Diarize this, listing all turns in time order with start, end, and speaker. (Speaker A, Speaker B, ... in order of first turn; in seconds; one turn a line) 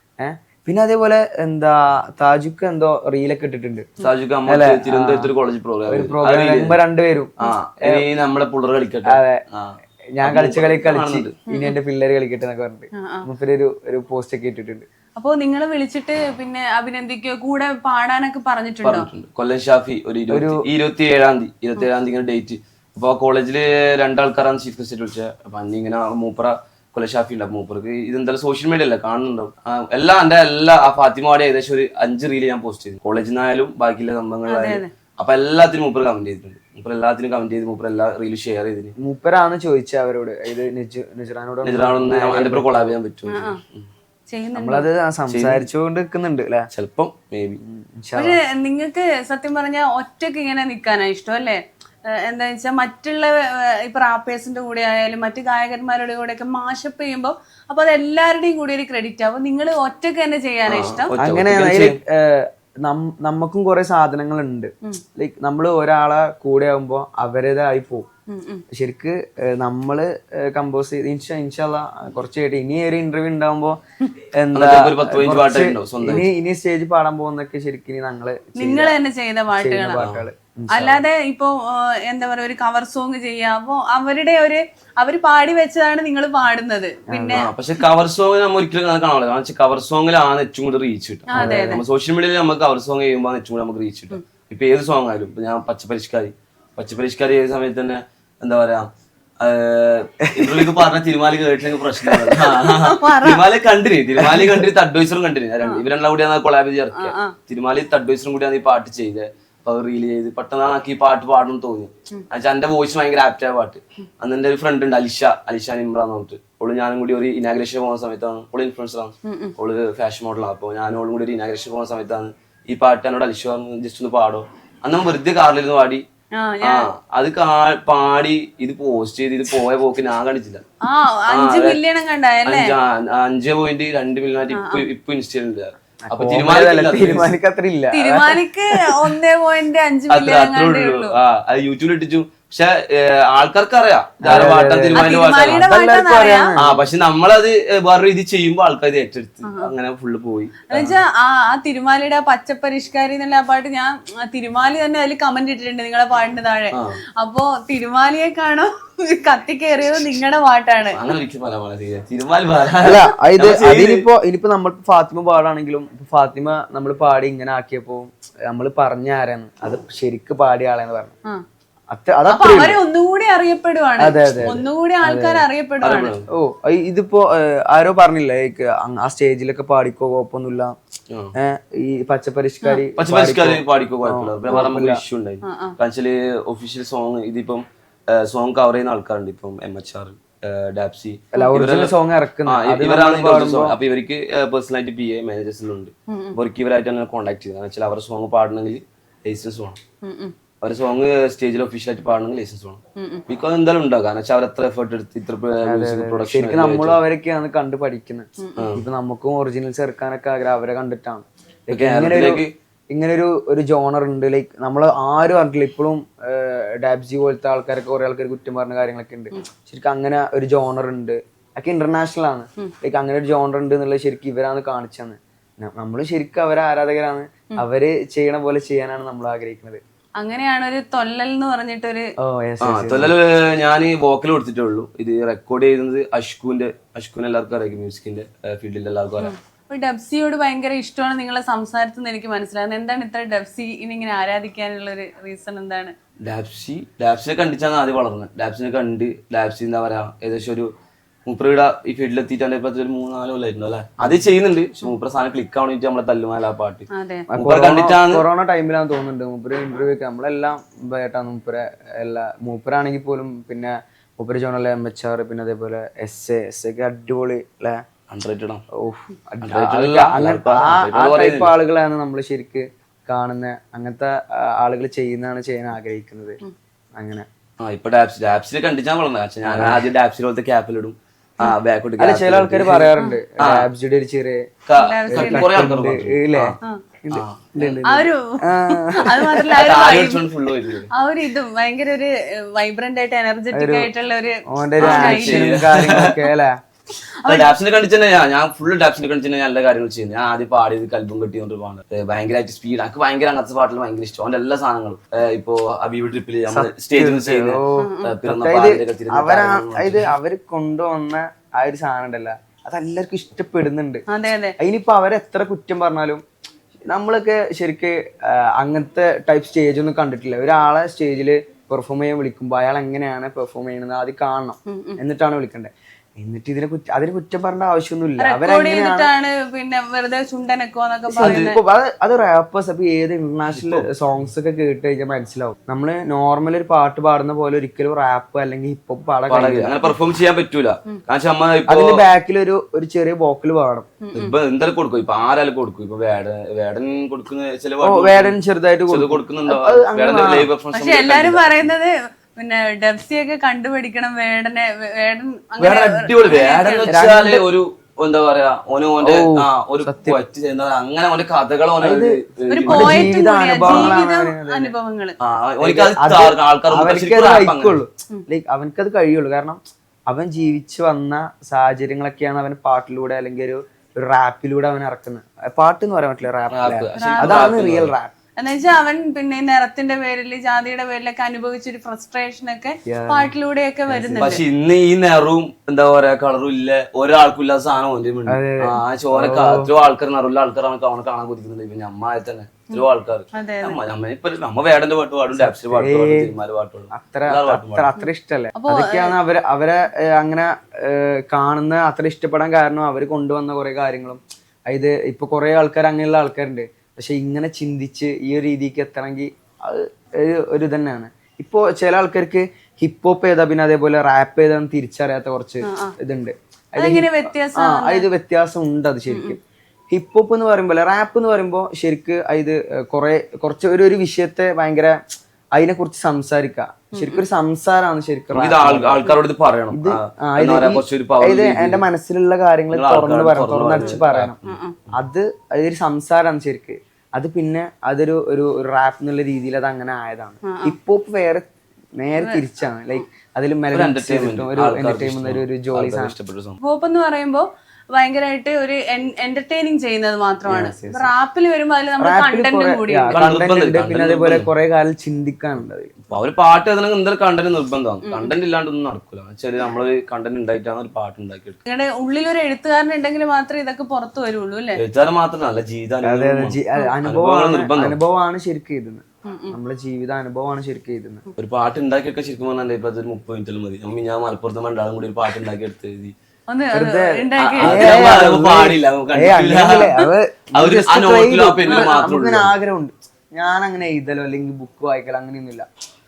Speaker A: 0.2-3.9
Speaker B: 4.0-6.8
Speaker A: 4.5-5.3
Speaker A: 5.9-8.0
Speaker B: 7.4-11.3
Speaker A: 9.1-9.4
Speaker A: 10.1-14.8
Speaker C: 11.5-11.7
Speaker C: 12.9-13.2
Speaker C: 15.2-19.1
Speaker B: 18.8-38.9
Speaker A: 20.3-20.6
Speaker C: 34.5-34.9
Speaker A: 39.0-43.0
Speaker B: 41.6-43.9
Speaker C: 43.3-43.6
Speaker C: 44.3-44.9
Speaker A: 44.5-46.7
Speaker B: 45.3-45.7
Speaker B: 46.7-47.6
Speaker A: 47.6-48.4
Speaker C: 48.1-61.1
Speaker B: 60.7-62.0
Speaker A: 61.1-68.1
Speaker C: 68.3-68.6
Speaker A: 68.7-73.8
Speaker A: 74.3-78.9
Speaker B: 74.5-76.3
Speaker C: 78.5-80.0
Speaker A: 79.5-81.0
Speaker B: 80.0-80.2
Speaker C: 80.7-87.5
Speaker A: 87.1-87.5
Speaker B: 87.3-98.9
Speaker C: 91.3-91.8
Speaker A: 91.4-91.8
Speaker B: 99.4-126.0
Speaker A: 100.2-100.8
Speaker A: 102.0-102.4
Speaker C: 102.5-103.4
Speaker A: 104.2-104.7
Speaker C: 106.9-107.3
Speaker C: 119.2-119.5
Speaker C: 126.4-126.9
Speaker B: 126.6-130.6
Speaker C: 130.8-132.7
Speaker B: 131.3-131.8
Speaker B: 132.4-137.3
Speaker C: 134.5-134.8
Speaker A: 136.1-138.4
Speaker C: 137.9-141.1
Speaker B: 140.1-145.7
Speaker A: 144.2-146.8
Speaker C: 144.9-146.5
Speaker B: 146.6-151.0
Speaker C: 149.4-149.7
Speaker C: 150.7-161.0
Speaker B: 156.7-157.0
Speaker B: 160.9-164.0
Speaker A: 162.8-171.1
Speaker A: 171.9-172.8
Speaker C: 172.3-176.1
Speaker A: 174.0-175.4
Speaker B: 175.8-176.2
Speaker A: 176.3-180.8
Speaker A: 181.4-185.0
Speaker B: 183.0-191.9
Speaker C: 185.4-185.8
Speaker A: 191.3-193.8
Speaker B: 192.4-199.8
Speaker C: 196.1-196.4
Speaker C: 200.0-200.3
Speaker B: 200.6-207.0
Speaker C: 203.0-203.2
Speaker A: 205.6-229.8
Speaker C: 208.4-208.7
Speaker B: 208.6-208.8
Speaker B: 211.7-212.5
Speaker C: 230.2-232.1
Speaker A: 232.2-233.2
Speaker B: 232.6-239.3
Speaker C: 239.2-245.9
Speaker B: 246.2-250.7
Speaker B: 251.2-258.2
Speaker C: 256.9-257.2
Speaker A: 257.3-267.8
Speaker B: 268.1-268.6
Speaker A: 268.7-276.4
Speaker B: 269.4-271.5
Speaker A: 276.9-277.3
Speaker B: 277.6-283.7
Speaker A: 279.4-279.8
Speaker A: 282.0-284.5
Speaker B: 284.6-286.6
Speaker C: 284.8-285.4
Speaker A: 285.1-289.4
Speaker B: 287.1-287.9
Speaker C: 287.8-290.2
Speaker B: 289.4-290.9
Speaker C: 290.9-295.5
Speaker A: 293.5-293.9
Speaker A: 294.5-296.6
Speaker B: 294.8-296.2
Speaker C: 297.2-297.5
Speaker B: 297.2-310.1
Speaker A: 306.5-314.0
Speaker C: 307.8-308.1
Speaker C: 314.1-314.6
Speaker A: 314.6-316.2
Speaker A: 316.9-329.1
Speaker C: 324.7-325.0
Speaker C: 328.2-331.6
Speaker A: 331.1-339.8
Speaker B: 331.2-331.5
Speaker B: 333.5-333.9
Speaker B: 339.3-342.0
Speaker A: 341.7-343.9
Speaker C: 344.0-344.3
Speaker B: 344.1-348.4
Speaker A: 347.8-350.5
Speaker B: 348.9-351.7
Speaker C: 350.7-356.9
Speaker B: 355.6-363.9
Speaker A: 356.9-357.5
Speaker A: 359.0-360.2
Speaker A: 361.8-364.7
Speaker C: 362.5-365.1
Speaker B: 365.2-367.8
Speaker A: 365.6-378.1
Speaker B: 376.5-377.9
Speaker C: 376.9-377.4
Speaker C: 378.4-384.4
Speaker A: 382.9-383.3
Speaker B: 383.9-397.9
Speaker A: 388.3-389.7
Speaker C: 392.7-393.8
Speaker A: 395.3-396.3
Speaker A: 396.9-425.0
Speaker C: 398.0-399.1
Speaker C: 415.6-415.9
Speaker C: 416.8-418.1
Speaker C: 419.1-419.4
Speaker A: 425.5-429.2
Speaker C: 426.9-427.2
Speaker B: 428.3-431.8
Speaker A: 429.7-434.4
Speaker B: 432.7-435.0
Speaker C: 433.8-434.8
Speaker A: 434.9-446.1
Speaker C: 440.4-440.7
Speaker B: 443.7-446.6
Speaker C: 446.6-453.1
Speaker A: 450.5-451.1
Speaker A: 452.0-455.9
Speaker B: 453.1-454.5
Speaker B: 456.1-461.6
Speaker C: 458.1-458.3
Speaker C: 461.6-464.8
Speaker B: 464.8-468.0
Speaker A: 466.0-471.2
Speaker C: 469.2-469.6
Speaker B: 471.4-476.1
Speaker C: 476.5-478.1
Speaker A: 476.7-485.6
Speaker B: 477.4-482.5